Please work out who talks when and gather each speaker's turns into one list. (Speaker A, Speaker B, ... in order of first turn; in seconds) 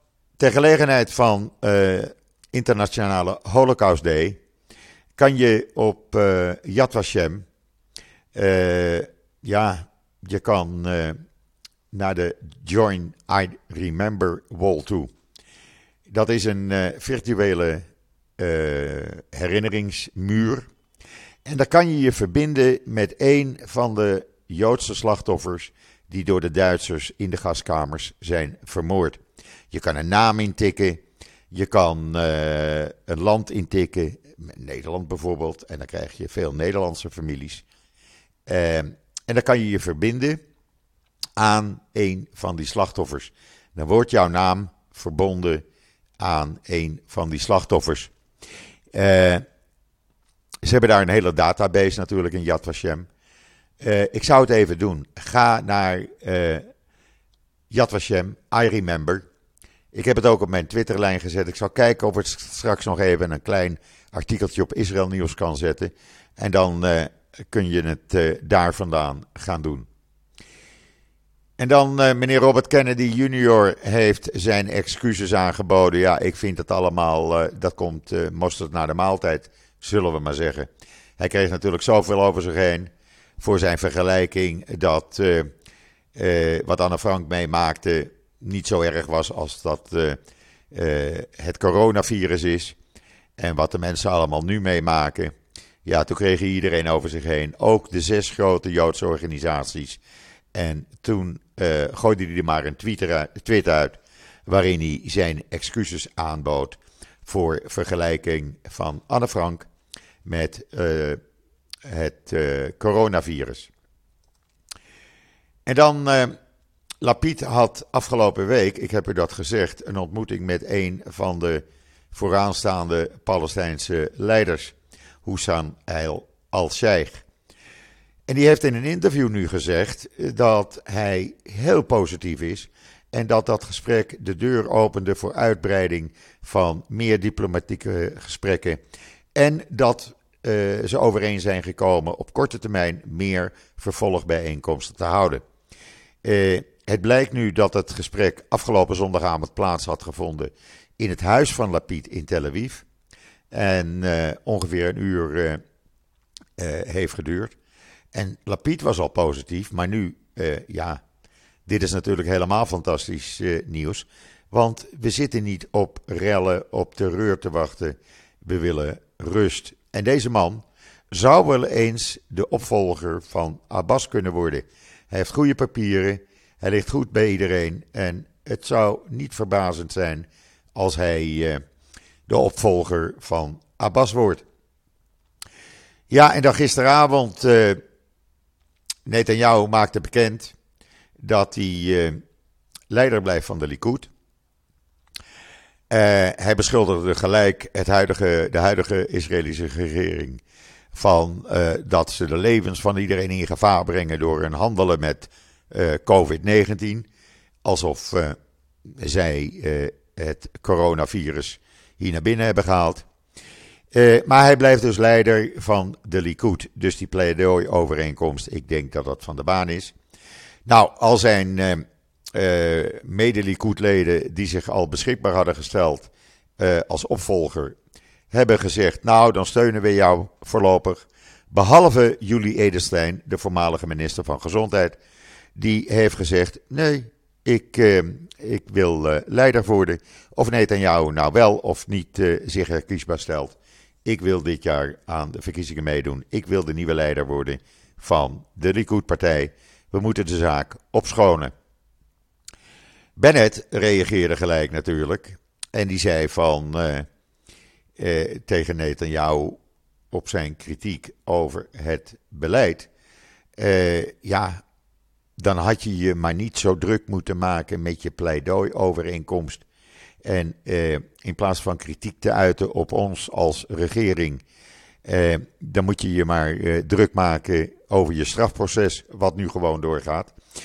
Speaker A: 0.4-4.4, 5.2-7.5, 8.3-11.2, 11.9-15.1, 16.1-17.8, 18.4-20.7, 21.4-37.6, 38.5-40.4, 41.4-45.6, 46.2-48.1, 48.9-49.4, 50.6-53.1, 53.8-56.7, 57.7-59.2, 59.9-69.9, 71.6-85.5, 86.2-90.2, 90.7-92.8, 93.4-95.3, 95.8-100.0, 100.5-109.7, 110.2-111.2, 111.8-113.7, 115.7-116.4, 117.0-127.2, 128.3-138.8, 139.3-145.4, 146.2-152.8, 153.5-155.6, 156.6-157.6, 158.1-161.0, 161.7-181.6, 182.3-184.4, 186.1-187.8, 189.1-190.6, 191.2-192.2, 192.9-194.1, 195.9-200.4, 200.9-207.1, 207.6-208.4, 208.9-213.1, 213.9-219.9, 220.7-227.8, 228.3-235.0, 235.6-251.5, 253.2-257.1, 258.0-259.6, 260.1-262.9, 263.6-264.6, 265.4-269.6, 270.2-274.4, 275.1-280.4